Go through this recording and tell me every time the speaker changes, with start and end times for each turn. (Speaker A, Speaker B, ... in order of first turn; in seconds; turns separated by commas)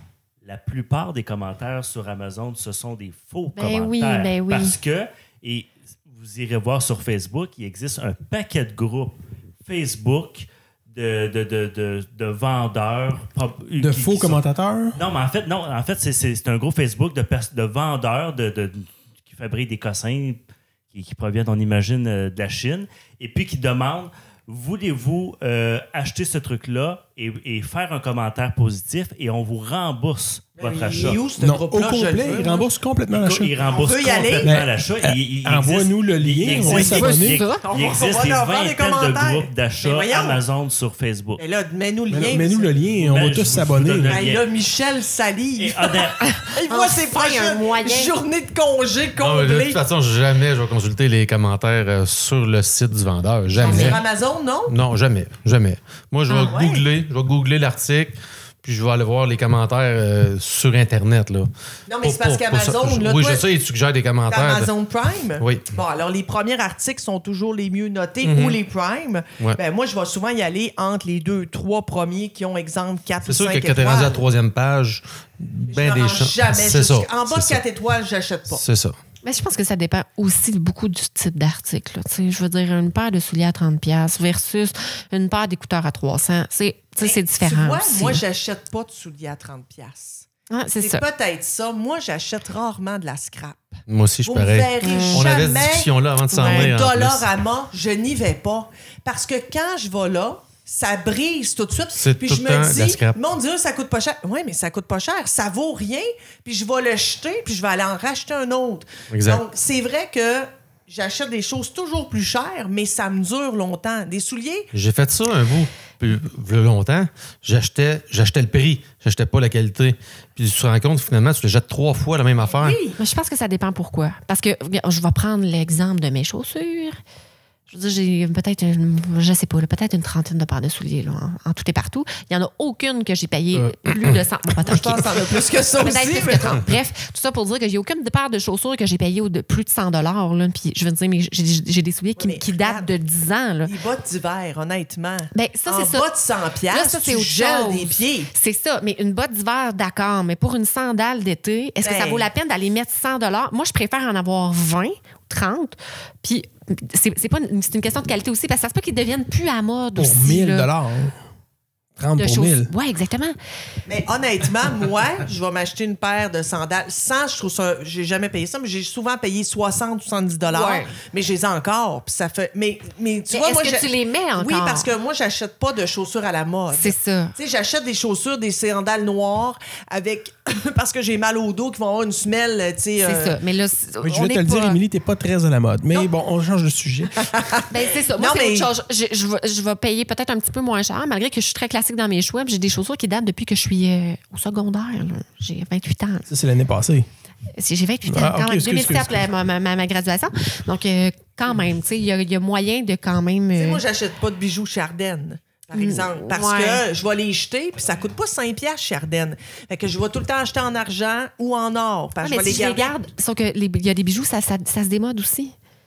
Speaker A: 0.4-14.4, Speaker B: 3.5-4.8, Speaker C: 13.8-15.0, Speaker A: 14.9-31.2, Speaker D: 30.6-32.7, Speaker C: 31.4-33.5, Speaker A: 33.1-41.4, Speaker D: 33.6-34.5, Speaker C: 34.4-37.4, Speaker D: 36.5-37.1, Speaker B: 36.7-37.6, Speaker D: 37.6-40.4, Speaker D: 41.4-42.7, Speaker C: 42.1-44.2, Speaker A: 42.9-44.5, Speaker D: 44.1-49.8, Speaker A: 45.6-46.3, Speaker B: 46.2-48.1, Speaker E: 49.2-54.0, Speaker D: 53.5-54.8, Speaker B: 53.6-54.0, Speaker E: 54.7-64.7, Speaker B: 56.3-56.6, Speaker D: 56.4-56.9, Speaker D: 61.9-63.5, Speaker D: 64.3-74.2, Speaker E: 65.4-65.7, Speaker E: 68.2-68.6, Speaker E: 73.2-77.6, Speaker D: 75.7-78.6, Speaker E: 78.5-79.0, Speaker B: 79.2-88.2, Speaker D: 87.0-90.3, Speaker B: 90.5-91.0, Speaker D: 90.8-114.7, Speaker E: 93.9-97.3, Speaker B: 94.8-95.3, Speaker B: 96.3-96.7, Speaker E: 102.0-103.2, Speaker E: 109.1-109.4, Speaker E: 114.7-122.8, Speaker D: 122.5-123.0, Speaker B: 123.0-127.0, Speaker B: 127.7-135.1, Speaker E: 133.5-134.2, Speaker D: 134.6-136.6, Speaker B: 135.8-143.7, Speaker D: 142.2-142.9, Speaker D: 143.7-148.3, Speaker B: 145.3-146.1, Speaker B: 146.7-160.7, Speaker D: 151.8-152.3, Speaker C: 160.0-161.2, Speaker C: 162.0-162.7, Speaker B: 162.2-163.4, Speaker D: 163.9-183.4, Speaker B: 170.5-170.9, Speaker B: 173.3-174.9, Speaker B: 176.7-177.3, Speaker B: 183.0-184.8, Speaker C: 184.0-187.3, Speaker D: 187.2-188.7, Speaker B: 187.7-196.3, Speaker C: 196.3-197.1, Speaker B: 197.6-203.8, Speaker C: 198.1-199.3, Speaker D: 203.6-212.9, Speaker B: 205.7-206.8, Speaker B: 212.2-215.6